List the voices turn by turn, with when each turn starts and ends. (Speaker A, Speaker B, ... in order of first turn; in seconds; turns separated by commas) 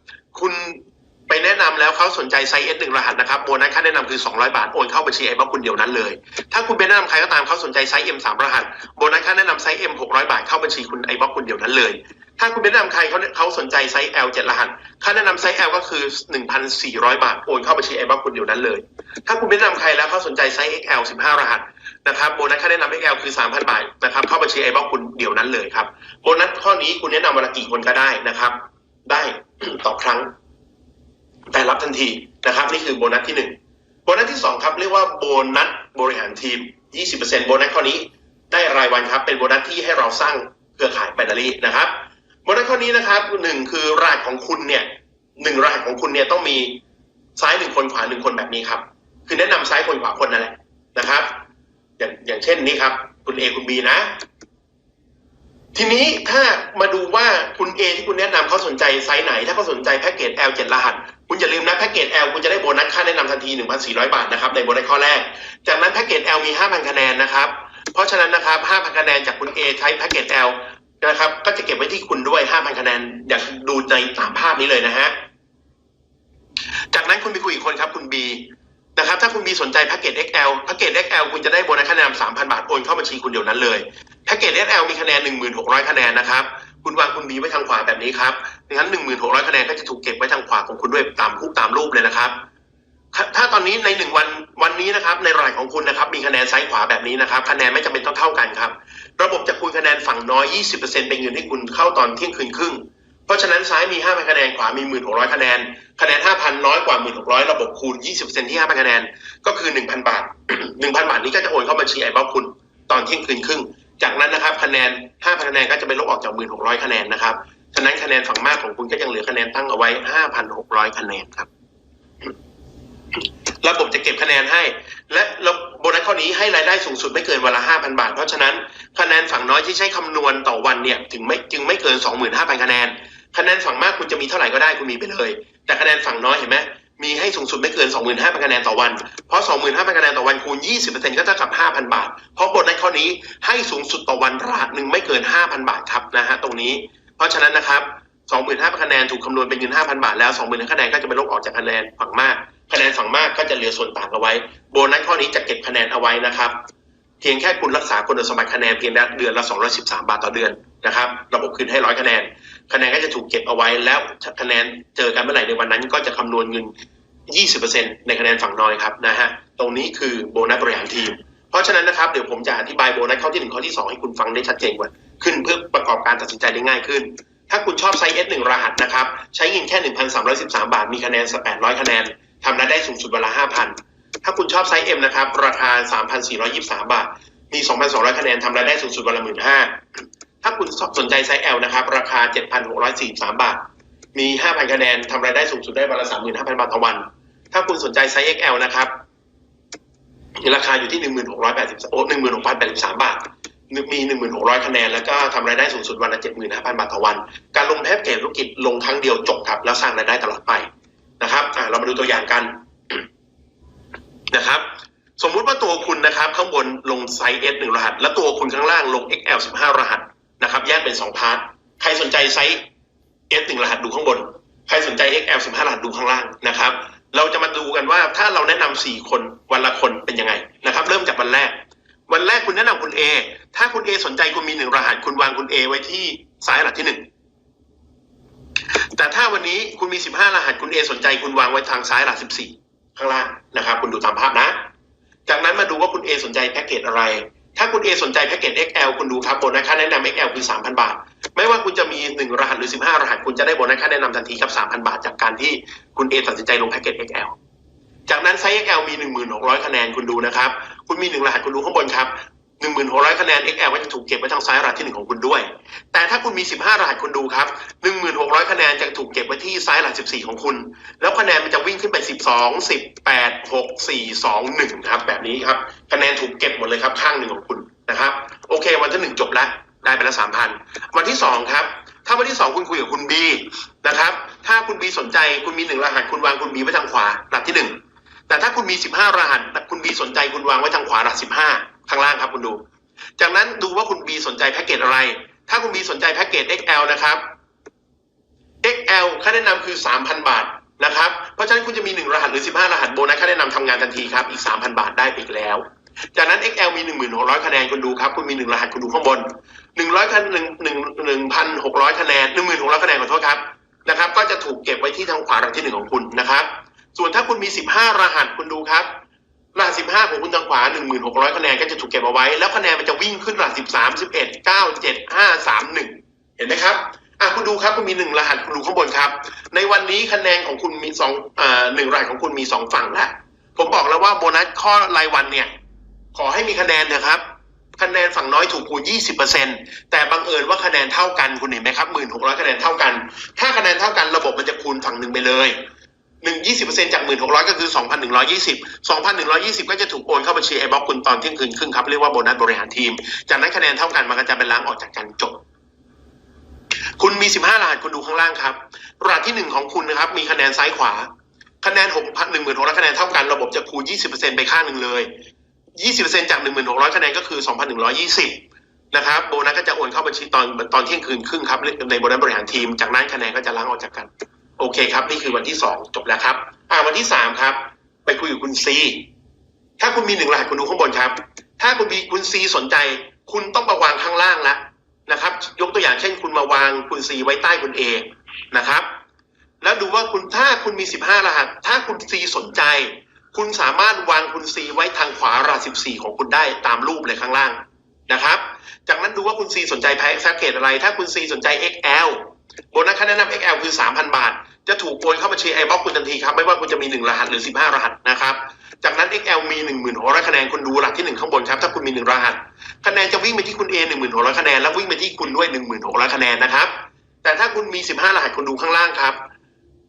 Speaker A: 0.3-30.3, Speaker A: 31.5-41.9, Speaker A: 42.4-46.8, Speaker A: 47.4-51.4, Speaker A: 52.0-54.1, Speaker A: 55.7-75.1, Speaker A: 76.9-92.3, Speaker A: 93.1-121.5, Speaker A: 123.6-156.6, Speaker A: 157.2-166.7, Speaker A: 167.3-189.8, Speaker A: 190.4-198.9, Speaker A: 200.4-210.7, Speaker A: 211.2-213.0, Speaker A: 214.3-214.6, Speaker A: 215.2-222.6, Speaker A: 223.3-237.1, Speaker A: 238.9-244.6, Speaker A: 245.3-257.4, Speaker A: 258.1-287.8, Speaker A: 288.3-292.6, Speaker A: 293.2-297.2, Speaker A: 298.6-305.6, Speaker A: 306.1-318.9, Speaker A: 319.5-335.5, Speaker A: 336.1-337.2, Speaker A: 337.8-345.6, Speaker A: 346.2-355.4, Speaker A: 357.0-361.1, Speaker A: 361.6-365.1, Speaker A: 365.8-379.1, Speaker A: 379.8-388.9, Speaker A: 389.6-416.7, Speaker A: 417.2-419.2